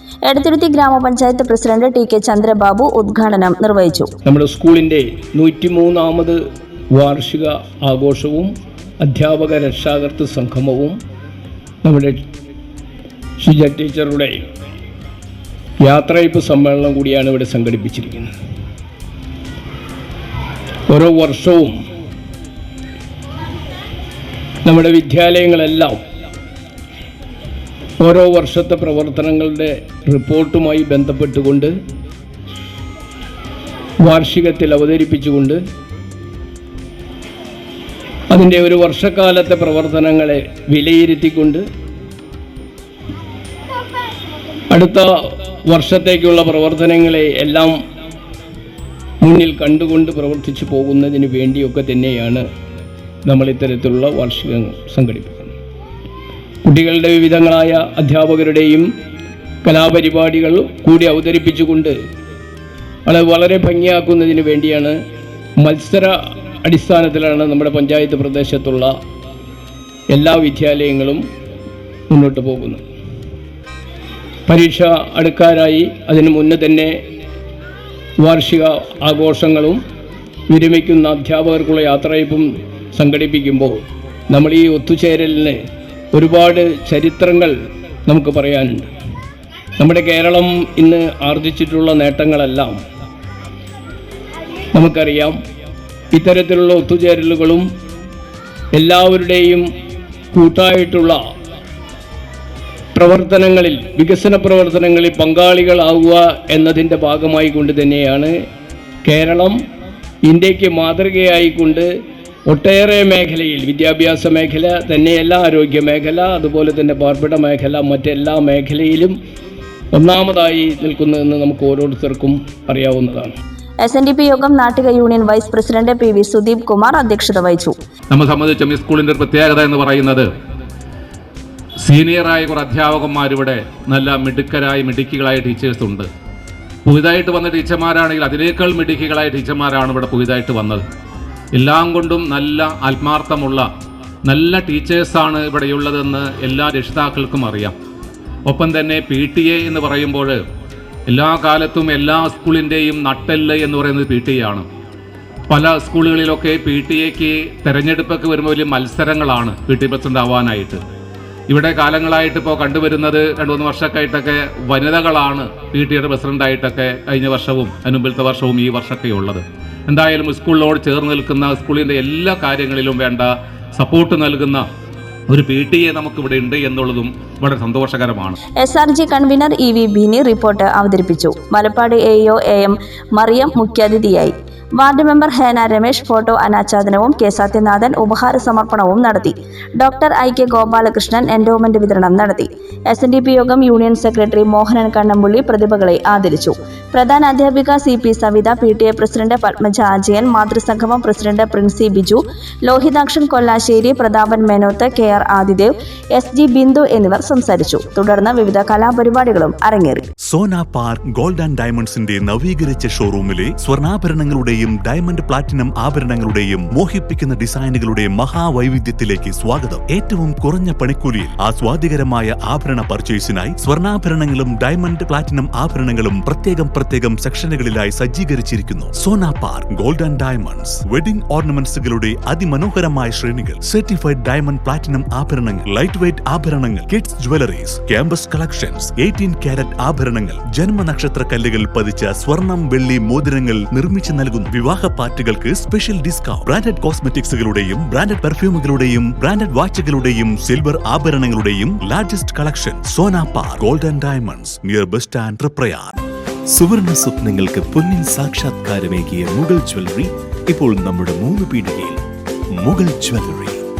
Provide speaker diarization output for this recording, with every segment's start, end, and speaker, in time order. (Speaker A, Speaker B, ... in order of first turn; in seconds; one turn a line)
Speaker A: 0.2-4.1
Speaker B: 4.2-6.4
Speaker B: 6.9-11.0
Speaker B: 11.8-12.2
Speaker B: 13.4-14.4
Speaker B: 15.8-18.3
Speaker B: 20.9-21.7
Speaker B: 24.6-26.0
Speaker B: 28.0-31.7
Speaker B: 34.0-35.6
Speaker B: 38.3-41.6
Speaker B: 44.7-45.1
Speaker B: 45.7-47.8
Speaker B: 49.2-52.5
Speaker B: 53.2-55.5
Speaker B: 56.6-58.9
Speaker B: 59.6-62.0
Speaker B: 63.0-65.0
Speaker B: 65.6-68.9
Speaker B: 70.1-71.2
Speaker B: 72.1-72.8
Speaker B: 74.5-76.9
Speaker B: 78.2-79.8
Speaker B: 80.5-83.8
Speaker B: 84.3-85.6
Speaker B: 86.1-87.5
Speaker B: 88.1-88.9
Speaker B: 89.8-92.8
Speaker B: 94.7-95.4
Speaker B: 96.1-97.7
Speaker B: 98.7-99.7
Speaker B: 100.3-101.2
Speaker B: 102.9-108.3
Speaker B: 109.0-109.6
Speaker B: 110.2-111.9
Speaker B: 112.5-119.1
Speaker B: 119.9-123.3
Speaker A: 123.8-127.7
Speaker C: 128.1-130.3
Speaker C: 131.8-136.1
Speaker C: 136.8-140.8
Speaker C: 141.5-143.7
Speaker C: 144.3-147.7
Speaker C: 148.5-150.4
Speaker C: 151.1-154.7
Speaker C: 155.5-160.8
Speaker C: 161.5-174.6
Speaker C: 175.3-178.3
Speaker A: 178.6-210.0
Speaker D: 210.2-256.0
Speaker E: 256.6-260.0
Speaker D: 258.4-258.7
Speaker D: 259.3-259.9
Speaker D: 260.5-261.8
Speaker E: 260.6-261.9
Speaker D: 262.7-263.4
Speaker E: 262.7-263.6